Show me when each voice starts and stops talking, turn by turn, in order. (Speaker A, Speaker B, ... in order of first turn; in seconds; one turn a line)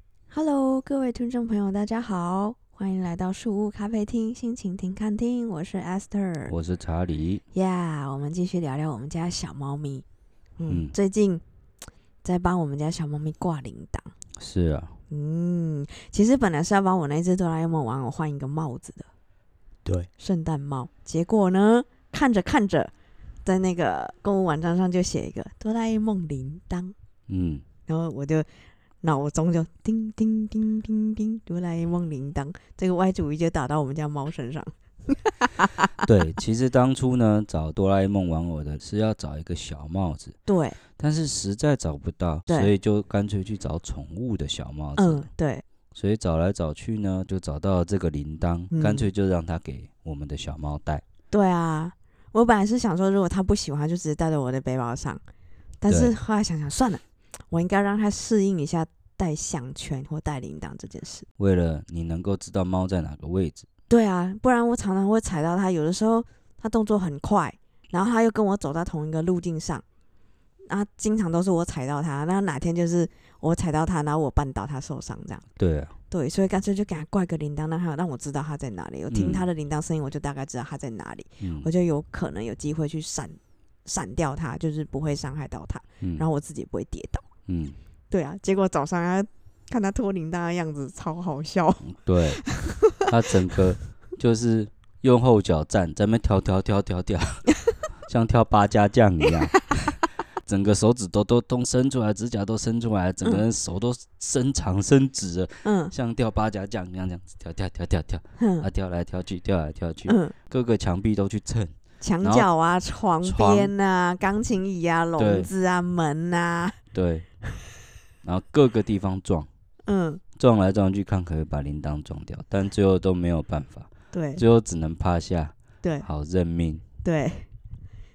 Speaker A: 0.3-6.5
Speaker B: 6.5-7.4
Speaker A: 7.5-10.0
Speaker A: 10.6-11.4
Speaker B: 10.7-10.9
Speaker A: 12.2-14.1
Speaker B: 14.4-15.0
Speaker A: 15.1-19.1
Speaker A: 20.2-22.9
Speaker A: 23.4-26.9
Speaker B: 27.3-27.6
Speaker A: 27.9-35.8
Speaker B: 36.0-40.4
Speaker A: 40.5-40.8
Speaker B: 41.0-45.2
Speaker A: 45.0-45.6
Speaker B: 45.9-51.0
Speaker A: 48.7-49.1
Speaker A: 51.3-55.2
Speaker A: 55.8-61.2
Speaker B: 55.9-56.1
Speaker B: 61.4-63.6
Speaker A: 63.9-69.8
Speaker A: 70.7-75.5
Speaker B: 75.6-75.9
Speaker A: 76.1-87.2
Speaker B: 79.1-79.5
Speaker B: 81.4-81.7
Speaker B: 87.5-87.8
Speaker A: 88.1-92.9
Speaker B: 91.8-112.5
Speaker A: 105.6-105.9
Speaker A: 108.4-108.7
Speaker A: 110.1-110.3
Speaker A: 112.0-116.8
Speaker B: 113.2-113.7
Speaker B: 115.2-115.5
Speaker B: 116.9-117.3
Speaker B: 118.2-119.5
Speaker A: 119.8-120.2
Speaker B: 120.3-126.8
Speaker A: 124.1-124.4
Speaker A: 127.0-127.5